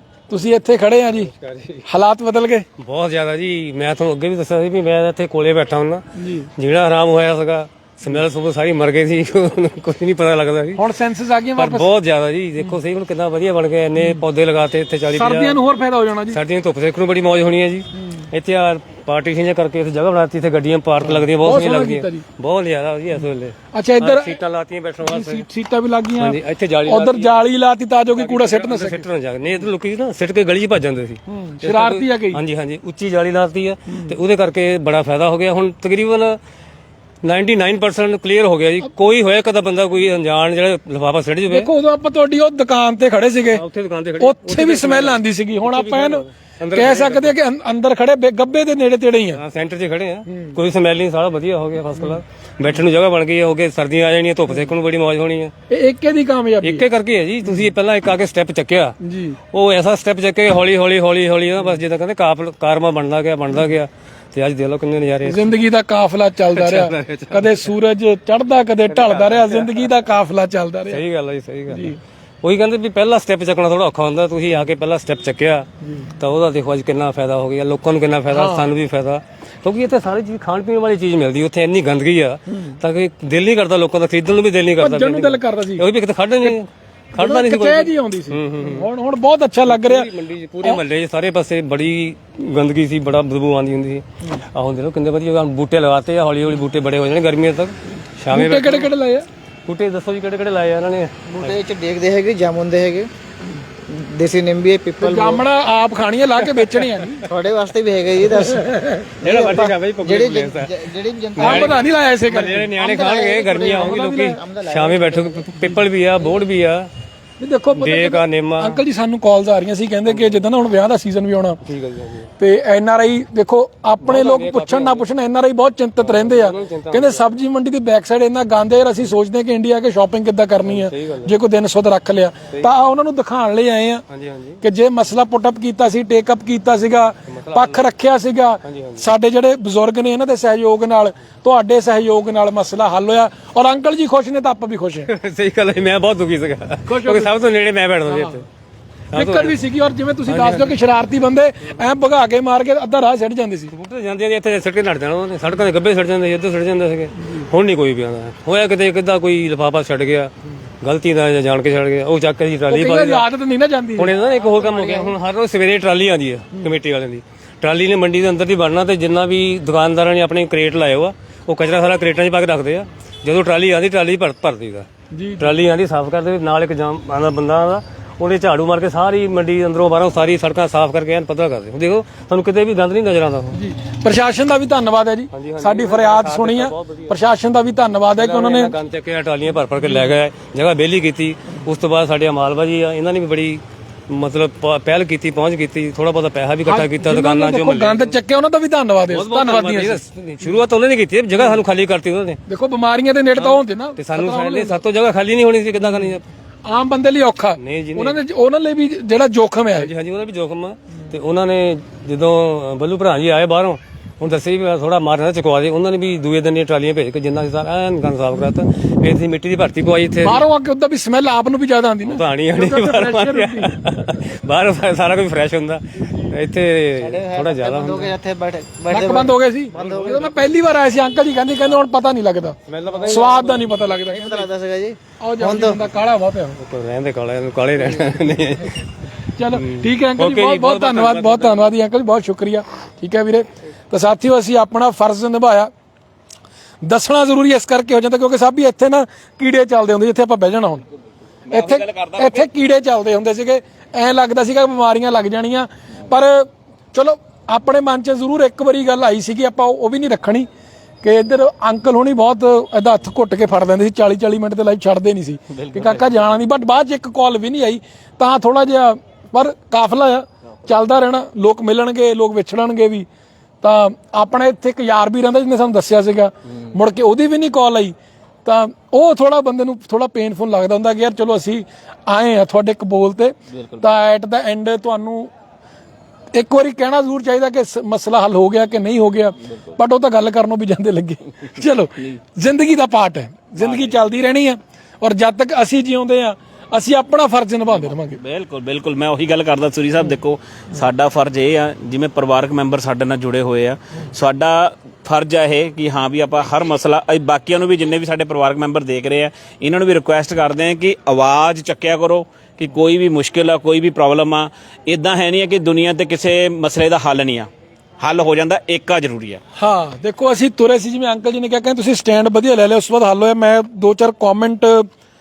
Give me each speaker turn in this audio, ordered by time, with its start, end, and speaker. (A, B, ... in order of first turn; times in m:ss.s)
0:00.3-0:01.3 A
0:01.3-0:01.8 B
0:01.9-0:02.7 A
0:02.8-0:06.0 B
0:06.2-0:06.5 A
0:06.6-0:10.8 B
0:10.8-0:11.9 A
0:11.6-0:15.6 B
0:15.1-0:16.4 A
0:16.3-0:25.5 B
0:21.0-0:22.3 A
0:23.7-0:24.4 A
0:25.0-0:29.1 A
0:26.2-0:27.4 B
0:28.2-0:36.4 B
0:31.3-0:32.4 A
0:33.9-0:34.2 A
0:37.2-0:41.7 B
0:41.5-0:43.6 A
0:43.5-0:47.4 B
0:44.2-0:49.4 A
0:49.4-0:55.5 B
0:55.7-0:56.9 A
0:56.6-0:59.0 B
0:59.0-0:59.4 A
0:59.5-1:05.6 B
1:05.2-1:11.0 A
1:06.5-1:07.7 B
1:08.9-1:09.8 B
1:10.9-1:28.9 B
1:11.7-1:12.0 A
1:18.3-1:18.7 A
1:24.8-1:25.8 A
1:27.2-1:30.1 A
1:29.7-1:38.9 B
1:38.3-1:39.3 A
1:39.7-1:41.6 B
1:41.3-1:43.1 C
1:43.8-1:45.4 C
1:45.0-1:47.2 A
1:46.6-1:47.1 B
1:47.2-1:51.8 C
1:48.6-1:49.0 A
1:49.2-1:56.9 B
1:51.4-1:52.7 A
1:52.7-1:55.5 C
1:53.7-1:54.4 A
1:57.4-2:01.6 A
1:57.7-1:58.8 B
2:00.1-2:00.4 B
2:01.6-2:02.3 B
2:02.4-2:14.0 A
2:04.0-2:05.1 B
2:06.0-2:07.3 B
2:10.6-2:11.3 B
2:14.1-2:14.6 B
2:14.6-2:25.1 A
2:17.3-2:17.9 B
2:18.6-2:19.1 B
2:25.1-2:28.5 B
2:26.9-2:27.3 A
2:28.1-2:28.4 A
2:29.1-2:29.6 B
2:29.1-2:33.7 A
2:30.3-2:30.8 B
2:33.7-2:40.3 B
2:40.8-2:43.3 B
2:42.7-2:44.1 A
2:44.0-2:54.9 B
2:55.1-2:55.6 A
2:55.4-3:03.6 B
3:03.5-3:08.8 A
3:05.3-3:07.2 B
3:08.1-3:18.1 B
3:16.7-3:20.0 A
3:19.1-3:22.4 B
3:22.5-3:24.8 A
3:23.4-3:26.3 B
3:25.9-3:29.9 A
3:27.6-3:28.2 B
3:29.8-3:40.4 B
3:40.2-3:43.7 A
3:42.0-3:48.2 B
3:47.0-3:50.2 C
3:48.9-3:54.5 A
3:49.8-3:50.5 B
3:52.7-3:53.7 B
3:53.0-3:53.4 C
3:54.1-3:55.8 C
3:55.2-3:56.6 A
3:56.6-3:58.8 B
3:59.4-4:05.7 A
3:59.5-4:01.7 B
4:06.8-4:10.8 A
4:11.5-4:12.5 D
4:11.5-4:20.5 A
4:21.0-4:33.1 A
4:25.5-4:26.3 D
4:33.6-4:45.3 A
4:43.5-4:43.9 D
4:46.3-4:58.2 A
4:49.5-4:49.8 D
4:53.6-4:54.0 D
4:57.7-5:17.5 D
5:18.0-5:19.4 D
5:19.6-5:24.9 A